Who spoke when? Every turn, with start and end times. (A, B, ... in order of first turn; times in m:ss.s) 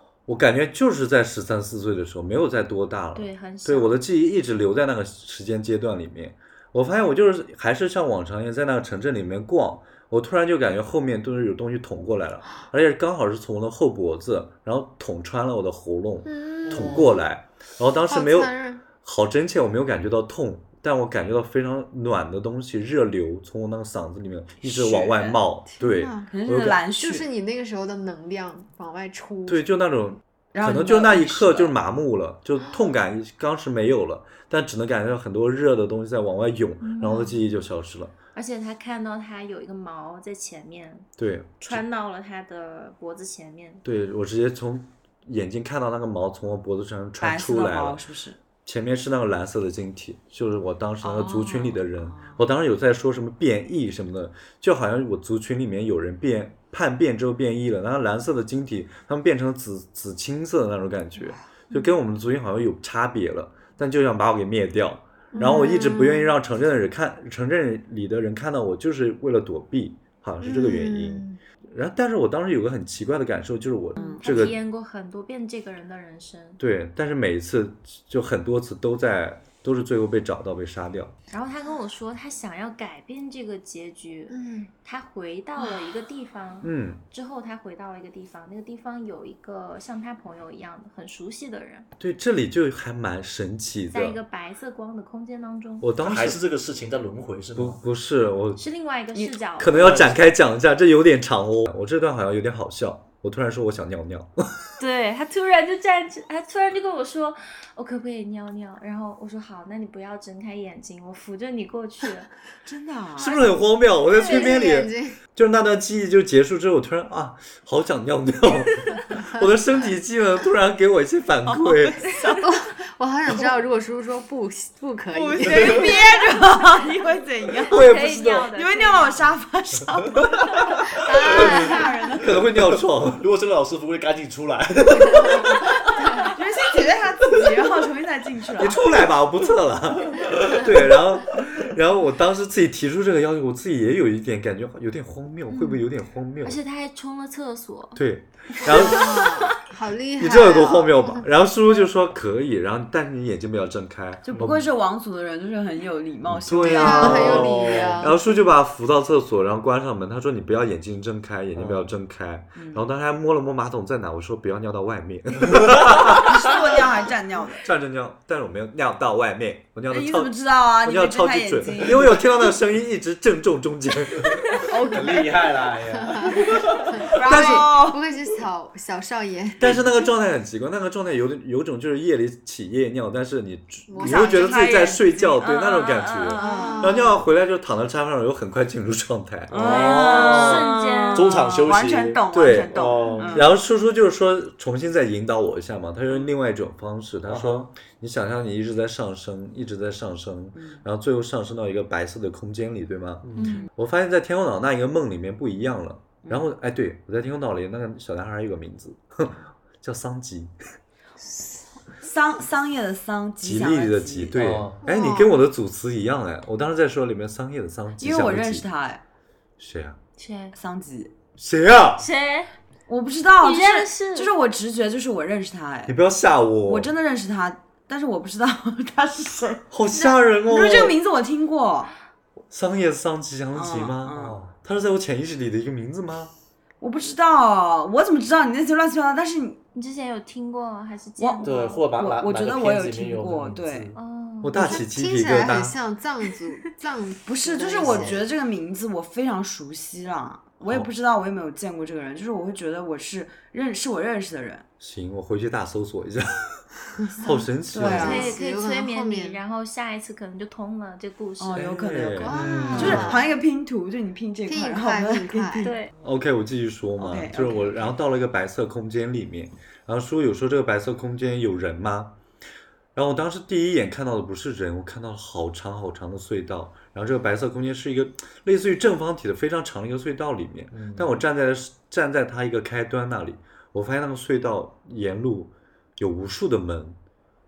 0:00.3-0:26.8 A
0:03.2-0:04.0 B
0:16.3-0:17.0 C
0:16.7-0:17.1 D
0:18.1-0:18.8 C
0:24.6-0:25.4 E
0:25.7-0:26.3 C
0:26.3-0:27.3 E
0:27.0-0:29.6 C
0:29.5-0:38.1 A
0:30.5-0:31.7 E
0:36.8-0:37.4 B
0:38.4-0:41.1 B
0:41.2-0:41.8 A
0:41.6-0:43.8 B
0:43.8-0:48.0 A
0:47.2-0:48.4 E
0:48.6-1:14.6 A
0:51.0-0:52.4 E
1:05.3-1:06.3 C
1:10.4-1:11.4 C
1:14.0-1:14.2 E
1:14.0-1:16.6 B
1:16.6-1:21.1 A
1:21.3-1:31.9 B
1:24.3-1:24.7 C
1:26.6-1:27.0 A
1:32.0-1:34.2 A
1:33.9-1:35.9 B
1:35.8-1:36.4 A
1:36.0-1:37.8 D
1:37.6-1:38.6 A
1:38.6-1:40.1 B
1:39.6-1:44.5 A
1:39.8-1:40.2 D
1:44.8-1:52.3 B
1:52.6-1:53.5 E
1:53.2-2:02.1 A
1:54.2-1:55.2 C
1:54.2-1:54.6 B
2:01.5-2:02.5 E
2:02.2-2:06.0 C
2:05.1-2:07.8 E
2:07.7-2:08.5 A
2:07.7-2:09.2 B
2:08.6-2:12.4 E
2:10.7-2:11.7 D
2:11.0-2:12.1 C
2:12.2-2:13.2 A
2:12.4-2:16.1 D
2:15.1-2:17.0 C
2:16.2-2:19.0 E
2:18.6-2:26.6 A
2:25.5-2:25.9 B
2:26.4-2:28.0 B
2:28.0-2:29.4 A
2:28.6-2:31.3 C
2:29.0-2:29.4 B
2:30.2-2:34.6 A
2:34.2-2:37.8 E
2:34.3-2:34.6 D
2:36.3-2:46.5 A
2:36.6-2:38.2 C
2:36.7-2:38.1 D
2:41.6-2:41.9 D
2:42.6-2:42.9 E
2:45.5-2:45.9 D
2:46.2-2:47.7 E
2:47.6-2:54.6 A
2:49.9-2:52.5 E
2:54.4-2:57.2 D
2:54.6-2:55.3 E
2:56.0-2:59.9 C
2:57.0-2:58.0 E
2:57.2-2:57.8 A
2:59.6-3:09.6 A
3:03.9-3:04.6 C
3:04.0-3:07.0 E
3:06.4-3:07.2 C
3:09.5-3:13.5 D
3:09.5-3:13.5 E
3:09.6-3:11.4 B
3:12.3-3:12.8 A
3:13.3-3:30.5 A
3:17.3-3:17.7 D
3:20.6-3:20.8 E
3:23.2-3:23.6 D
3:23.4-3:23.7 B
3:23.4-3:23.7 E
3:32.0-3:34.4 E
3:33.4-3:38.7 A
3:34.4-3:34.8 D
3:34.9-3:35.4 C
3:38.0-3:39.0 E
3:39.6-3:40.0 A
3:40.2-3:40.5 B
3:40.5-3:41.1 E
3:41.4-3:42.1 A
3:42.0-3:42.5 B
3:42.9-3:46.0 E
3:43.4-3:44.3 B
3:45.9-3:46.9 A
3:46.6-3:51.9 E
3:49.7-3:51.0 A
3:52.5-3:56.3 A
3:53.6-3:54.4 E
3:56.8-3:59.6 E
3:59.7-4:01.8 B
4:01.2-4:03.9 E
4:01.4-4:04.0 D
4:03.9-4:04.8 B
4:04.4-4:05.8 A
4:04.5-4:08.3 C
4:07.3-4:14.6 E
4:14.8-4:18.3 A
4:17.2-4:19.4 C
4:17.7-4:18.4 E
4:17.9-4:21.6 B
4:21.4-4:25.8 E
4:21.6-4:23.2 A
4:22.2-4:23.3 C
4:24.5-4:25.7 C
4:25.6-4:25.9 B
4:26.0-4:32.2 A
4:27.0-4:27.8 E
4:33.0-4:47.0 A
4:40.7-4:41.1 D